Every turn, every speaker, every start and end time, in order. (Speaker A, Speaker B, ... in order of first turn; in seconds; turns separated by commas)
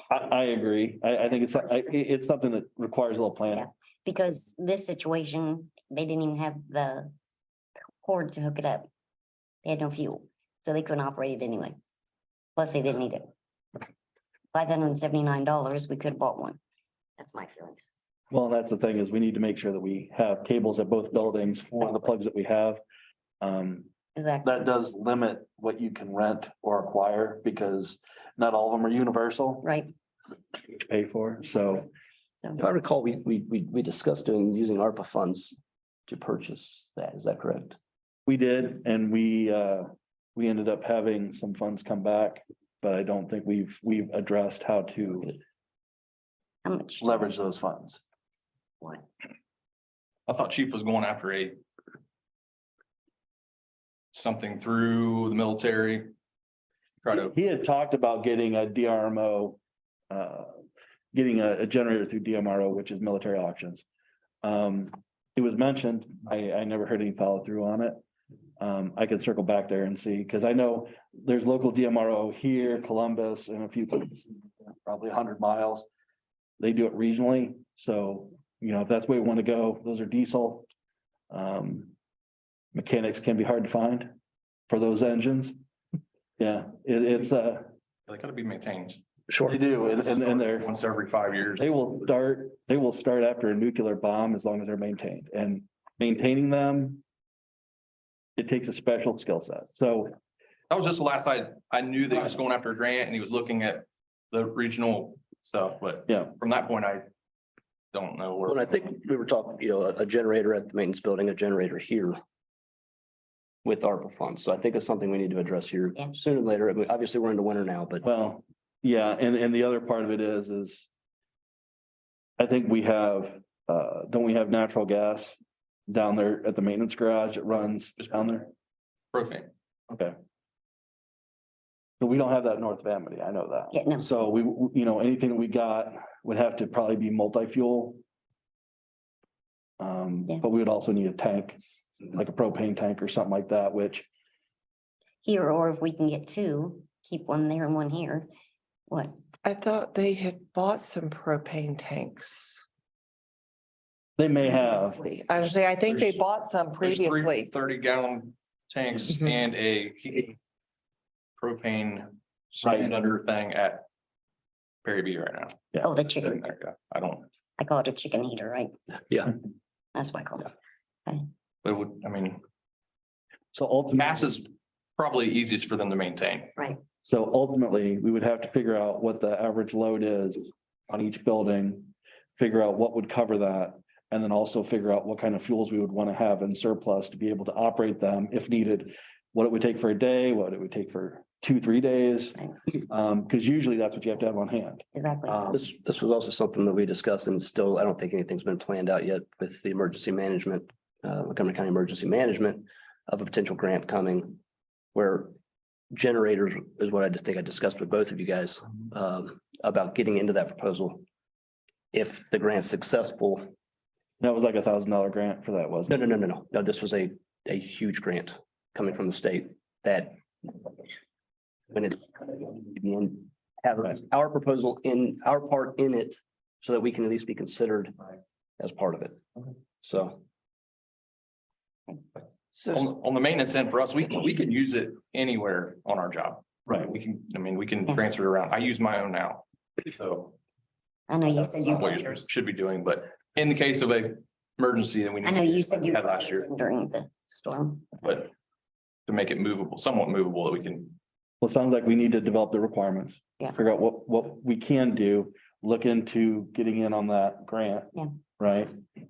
Speaker A: 0.1-3.7, Speaker B: 3.5-7.1, Speaker B: 8.0-8.9, Speaker B: 9.6-11.8, Speaker B: 12.6-13.3, Speaker B: 14.5-16.6, Speaker B: 17.2-17.9, Speaker A: 18.3-22.8, Speaker B: 21.8-22.1, Speaker A: 23.4-23.9, Speaker B: 24.2-24.5, Speaker A: 24.4-29.6, Speaker B: 29.6-29.9, Speaker A: 30.7-31.9, Speaker C: 32.6-35.6, Speaker C: 36.1-37.8, Speaker A: 38.3-45.4, Speaker B: 46.6-47.3, Speaker A: 47.0-48.0, Speaker D: 50.3-51.6, Speaker D: 54.1-56.1, Speaker D: 57.0-57.4, Speaker A: 57.1-59.6, Speaker A: 60.1-60.6, Speaker A: 61.1-63.9, Speaker A: 64.4-68.0, Speaker A: 68.6-74.3, Speaker A: 74.8-75.9, Speaker A: 76.6-80.7, Speaker A: 81.3-81.9, Speaker A: 82.7-84.1, Speaker A: 84.7-85.6, Speaker A: 86.4-87.7, Speaker D: 88.1-89.0, Speaker C: 89.3-89.6, Speaker A: 89.5-90.7, Speaker D: 89.9-91.7, Speaker A: 91.6-97.0, Speaker A: 98.4-100.1, Speaker D: 100.7-107.1, Speaker A: 106.1-106.3, Speaker D: 107.9-108.8, Speaker C: 108.5-112.2, Speaker C: 113.6-118.0, Speaker A: 118.0-120.9, Speaker A: 122.4-125.4, Speaker A: 125.9-128.5, Speaker D: 128.0-128.3, Speaker D: 129.1-129.5, Speaker A: 129.9-130.2, Speaker A: 132.0-138.0, Speaker B: 133.7-134.1, Speaker A: 139.8-144.1, Speaker B: 145.2-148.3, Speaker B: 148.9-149.2, Speaker E: 149.4-152.6, Speaker A: 154.2-155.0, Speaker E: 154.4-157.5, Speaker D: 155.9-156.2, Speaker D: 156.8-160.4, Speaker D: 161.4-163.9, Speaker D: 164.8-167.3, Speaker B: 165.8-166.4, Speaker B: 167.6-168.7, Speaker B: 169.9-170.5, Speaker D: 171.6-172.4, Speaker A: 173.5-174.4, Speaker D: 174.0-176.5, Speaker A: 177.0-195.6, Speaker B: 194.9-195.5, Speaker C: 195.5-204.4, Speaker C: 204.9-205.4, Speaker C: 205.9-211.1, Speaker C: 211.9-213.5, Speaker A: 214.2-216.0, Speaker C: 215.9-220.9, Speaker C: 221.7-227.9, Speaker C: 228.6-229.2, Speaker C: 229.8-230.2, Speaker E: 232.6-232.8, Speaker D: 232.7-240.3, Speaker B: 241.1-242.3, Speaker D: 241.3-246.5, Speaker B: 245.2-248.1, Speaker D: 248.0-248.3, Speaker D: 249.1-251.0, Speaker A: 251.4-258.7